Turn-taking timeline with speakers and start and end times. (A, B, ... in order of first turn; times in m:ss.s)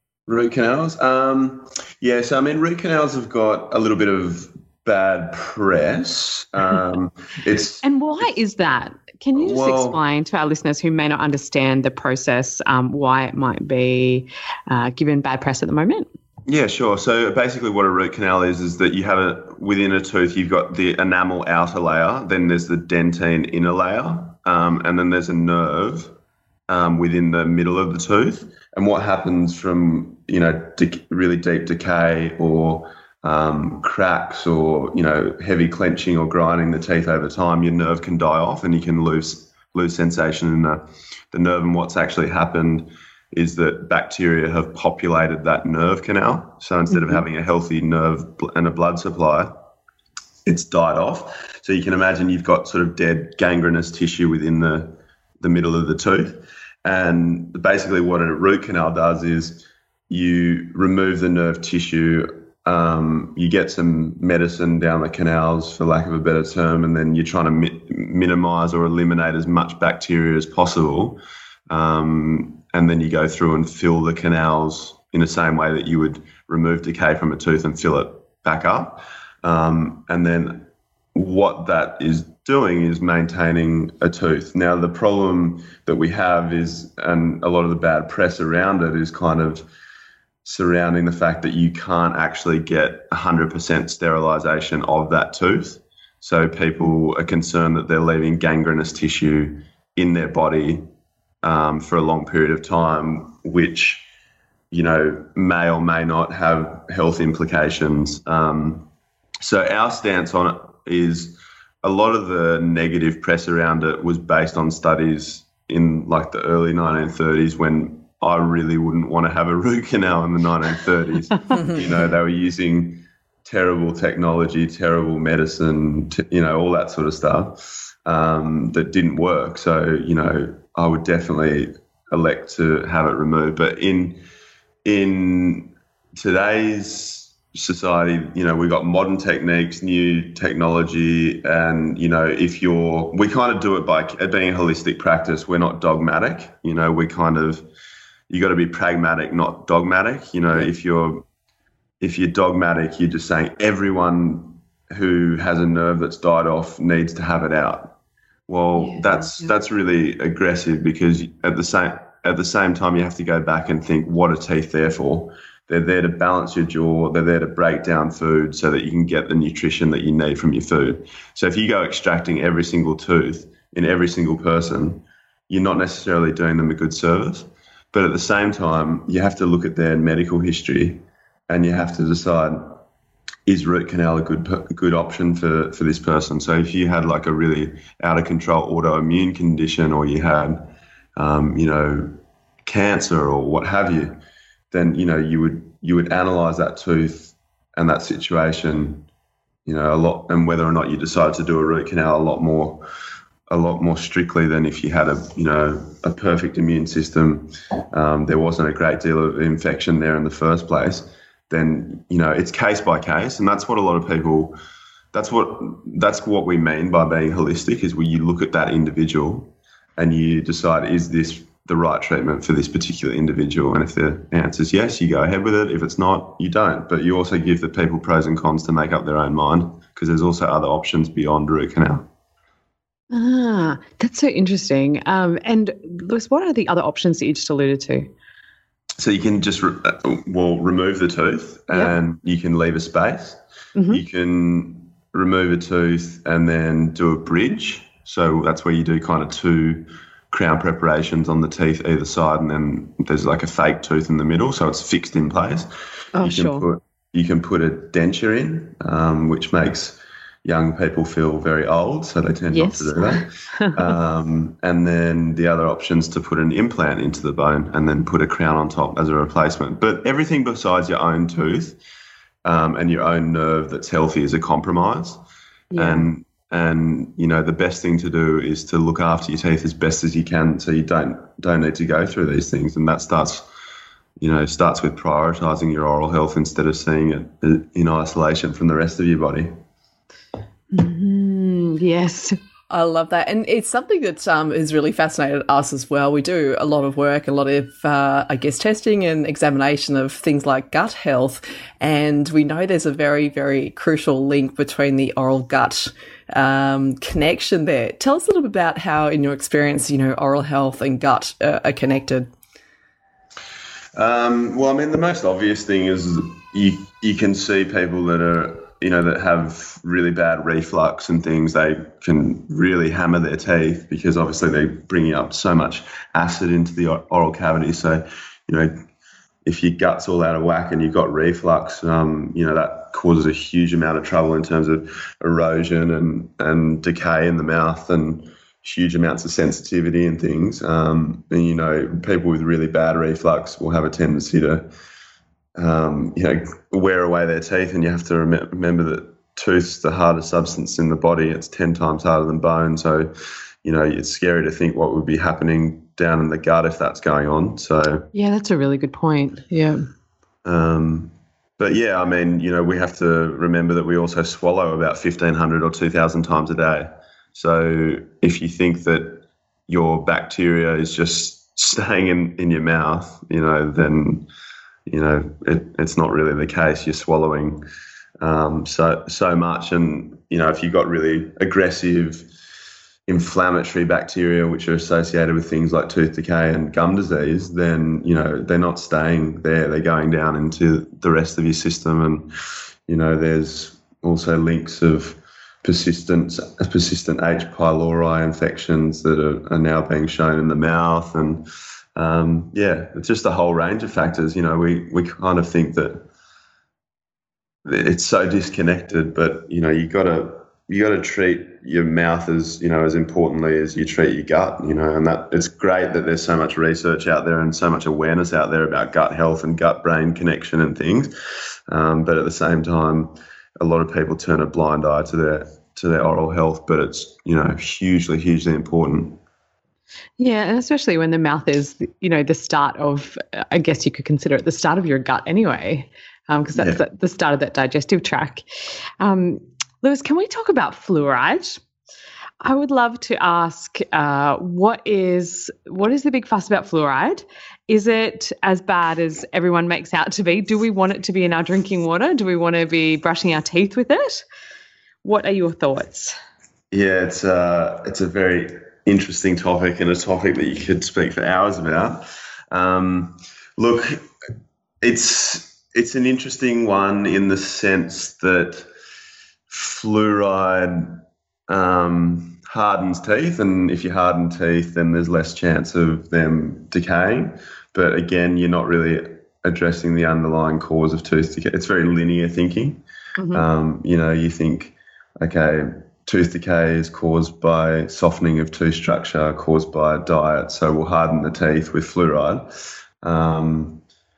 0:00.3-0:08.3 A
0:07.8-0:16.1 B
0:09.4-0:10.0 A
0:16.5-0:26.1 A
0:26.7-0:49.5 A
0:50.4-1:29.6 A
1:30.4-1:40.9 A
1:41.4-1:44.1 A
1:44.7-1:48.9 A
1:49.4-2:14.2 A
2:14.8-2:27.6 A
2:28.3-2:31.2 A
2:32.0-2:37.9 A
2:38.5-3:02.8 A
2:38.8-2:39.5 B
3:03.4-3:14.2 A
3:14.7-3:19.0 A
3:19.6-3:22.8 A
3:23.5-3:34.6 A
3:35.1-3:52.1 A
3:53.1-3:58.1 B
3:59.0-4:31.8 A
4:01.7-4:02.0 B
4:03.7-4:04.0 B
4:16.1-4:16.6 B
4:22.5-4:23.8 B
4:32.4-4:35.2 A
4:35.7-4:36.1 B
4:35.8-4:43.5 A
4:44.2-4:49.6 A
4:50.7-4:52.4 B
4:52.7-5:12.3 C
5:13.9-5:28.8 A
5:29.4-5:44.7 A
5:45.6-5:53.1 A
5:53.6-5:58.1 A
5:58.1-5:59.8 B
6:00.4-6:14.3 A
6:14.9-6:17.6 A
6:18.2-6:22.3 A
6:23.1-6:32.3 A
6:32.9-6:46.0 A
6:47.6-7:01.1 A
7:01.7-7:09.2 A
7:10.2-7:18.4 B
7:16.5-7:16.8 A
7:19.0-7:21.6 B
7:22.4-7:34.2 B
7:35.0-7:36.1 B
7:36.7-7:44.1 A
7:44.8-7:48.7 A
7:49.5-8:02.8 A
8:03.2-8:03.4 B
8:03.3-8:13.8 A